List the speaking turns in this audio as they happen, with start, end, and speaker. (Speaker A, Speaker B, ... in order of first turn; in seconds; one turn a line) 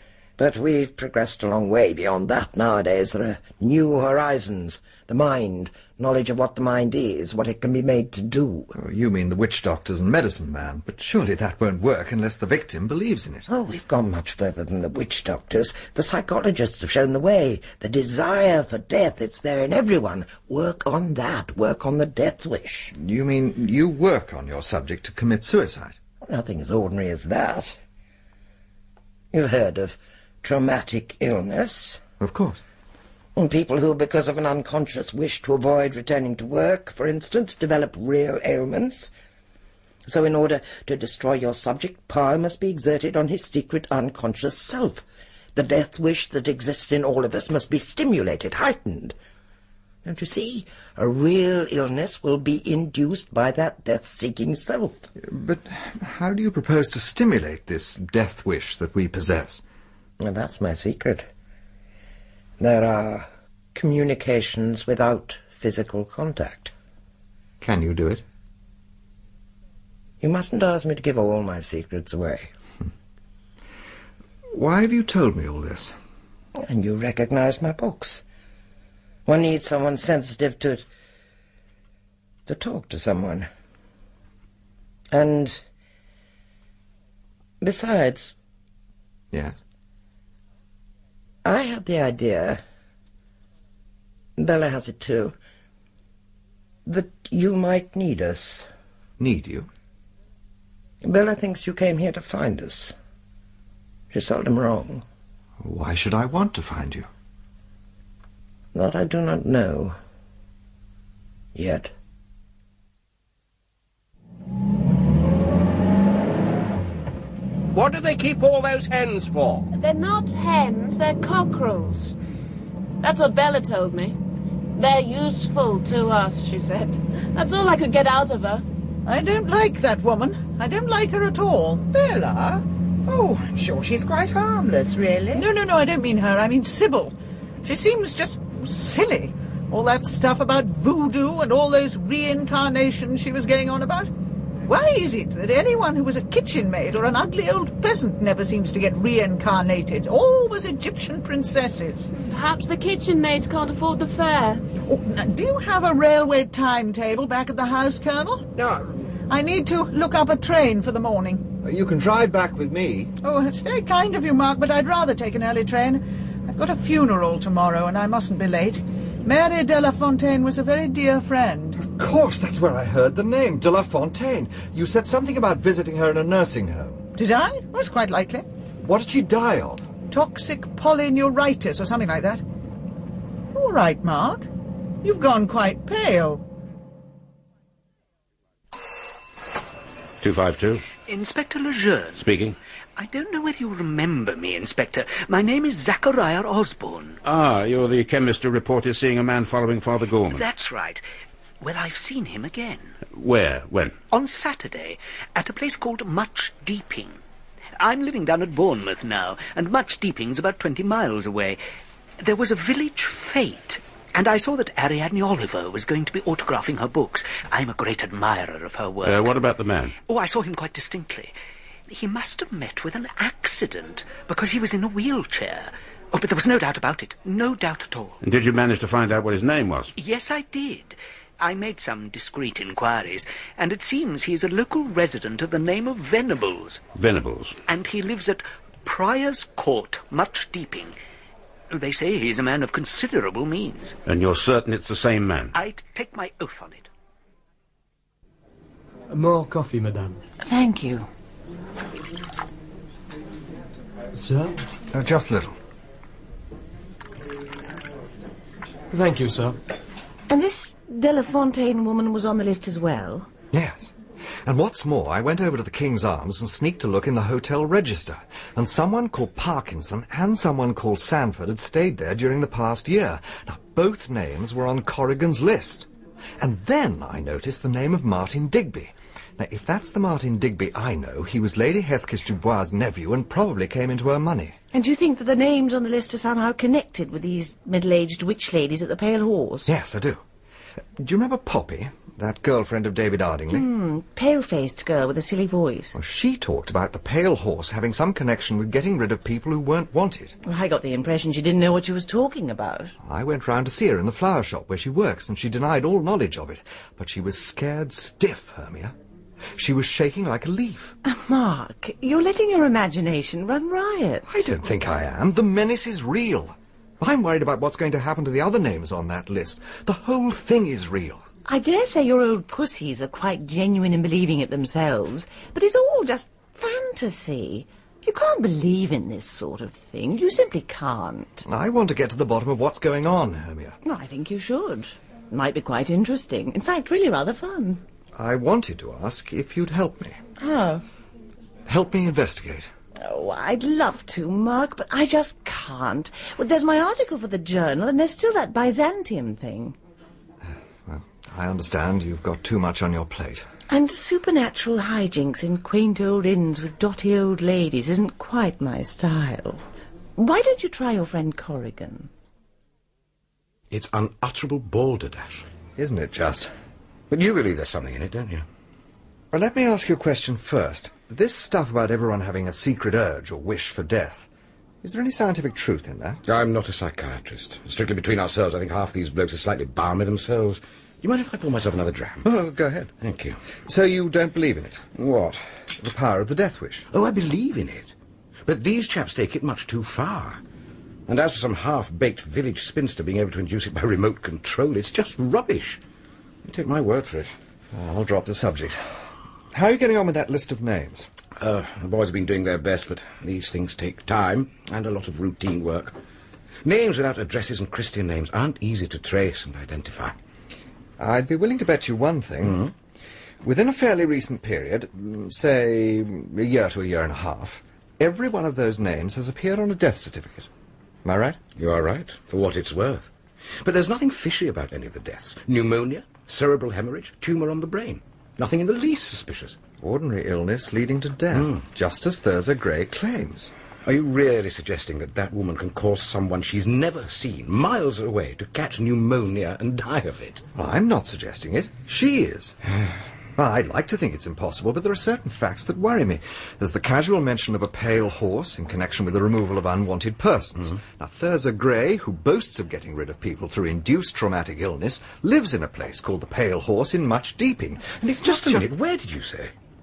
Speaker A: 0.4-8.7
Speaker B: 8.7-13.5
Speaker A: 13.5-22.9
Speaker B: 22.9-26.0
Speaker A: 26.2-27.8
Speaker A: 29.3-32.0
Speaker B: 32.2-32.6
Speaker A: 33.4-39.1
Speaker A: 40.0-45.0
Speaker A: 45.5-49.1
Speaker A: 50.0-55.1
Speaker B: 55.2-59.6
Speaker A: 60.2-61.2
Speaker A: 62.6-66.7
Speaker B: 67.6-68.2
Speaker A: 70.2-72.5
Speaker B: 74.5-75.9
Speaker A: 76.5-78.2
Speaker A: 79.2-80.8
Speaker A: 82.5-83.5
Speaker A: 85.1-85.6
Speaker A: 87.6-88.3
Speaker A: 91.4-92.6
Speaker A: 94.4-95.3
Speaker A: 96.8-98.7
Speaker B: 99.2-99.7
Speaker A: 101.0-102.9
Speaker A: 104.1-105.0
Speaker B: 105.6-107.1
Speaker A: 108.7-110.0
Speaker A: 111.5-111.9
Speaker C: 117.7-119.7
Speaker D: 119.7-122.1
Speaker D: 123.0-124.2
Speaker D: 124.8-128.6
Speaker E: 129.1-131.9
Speaker F: 131.9-135.5
Speaker E: 135.3-144.1
Speaker E: 144.7-152.1
Speaker D: 152.1-154.6
Speaker E: 154.9-158.5
Speaker E: 159.3-161.4
Speaker B: 161.6-163.1
Speaker E: 163.2-171.8
Speaker B: 171.8-177.0
Speaker E: 177.2-178.4
Speaker B: 178.8-179.9
Speaker E: 180.1-182.4
Speaker E: 183.5-184.5
Speaker E: 185.0-186.4
Speaker G: 190.2-190.8
Speaker H: 191.1-192.2
Speaker G: 192.1-192.6
Speaker H: 192.9-197.2
Speaker G: 197.2-200.5
Speaker H: 200.3-201.0
Speaker H: 201.6-202.9
Speaker G: 203.1-203.9
Speaker H: 204.1-207.2
Speaker H: 207.8-211.6
Speaker H: 212.2-219.3
Speaker G: 219.0-219.9
Speaker H: 220.1-221.3
Speaker H: 221.9-228.2
Speaker G: 228.2-229.9
Speaker H: 230.0-236.8
Speaker G: 236.9-237.6
Speaker H: 237.7-240.9
Speaker H: 241.7-243.9
Speaker G: 244.1-245.5
Speaker H: 245.5-246.9
Speaker I: 249.1-250.2
Speaker J: 250.4-251.1
Speaker I: 254.1-254.6
Speaker B: 254.9-255.6
Speaker I: 258.9-259.6
Speaker J: 260.3-263.3
Speaker B: 263.5-275.9
Speaker B: 276.4-284.5
Speaker J: 284.7-289.7
Speaker B: 289.6-290.2
Speaker B: 291.0-293.6
Speaker J: 293.5-295.9
Speaker B: 295.9-300.3
Speaker J: 300.4-302.9
Speaker B: 303.0-308.9
Speaker B: 309.5-310.9
Speaker J: 311.0-314.4
Speaker B: 314.3-321.2
Speaker J: 321.4-331.4
Speaker B: 331.4-333.8
Speaker J: 333.8-337.8
Speaker B: 338.1-340.2
Speaker J: 340.4-340.8
Speaker B: 341.7-342.7
Speaker J: 343.0-349.8
Speaker B: 350.9-353.4
Speaker J: 353.7-359.6
Speaker J: 360.2-362.1
Speaker K: 363.7-365.4
Speaker B: 365.8-366.5
Speaker K: 367.1-368.4
Speaker B: 369.3-374.3
Speaker B: 374.8-376.2
Speaker K: 376.2-382.3
Speaker B: 382.2-382.9
Speaker K: 383.0-383.4
Speaker B: 383.6-384.9
Speaker K: 384.9-385.4
Speaker B: 385.7-386.8
Speaker K: 386.9-387.9
Speaker K: 388.4-390.4
Speaker K: 391.1-395.8
Speaker K: 396.4-397.3
Speaker B: 397.7-398.8
Speaker B: 399.5-401.1
Speaker K: 401.4-405.9
Speaker K: 406.6-410.2
Speaker B: 411.0-412.6
Speaker K: 412.4-412.7
Speaker B: 413.4-420.5
Speaker B: 421.0-421.4
Speaker K: 421.6-429.6
Speaker B: 429.8-433.5
Speaker K: 431.3-431.6
Speaker K: 433.8-440.4
Speaker B: 440.5-442.5
Speaker B: 443.4-458.7
Speaker K: 458.2-459.5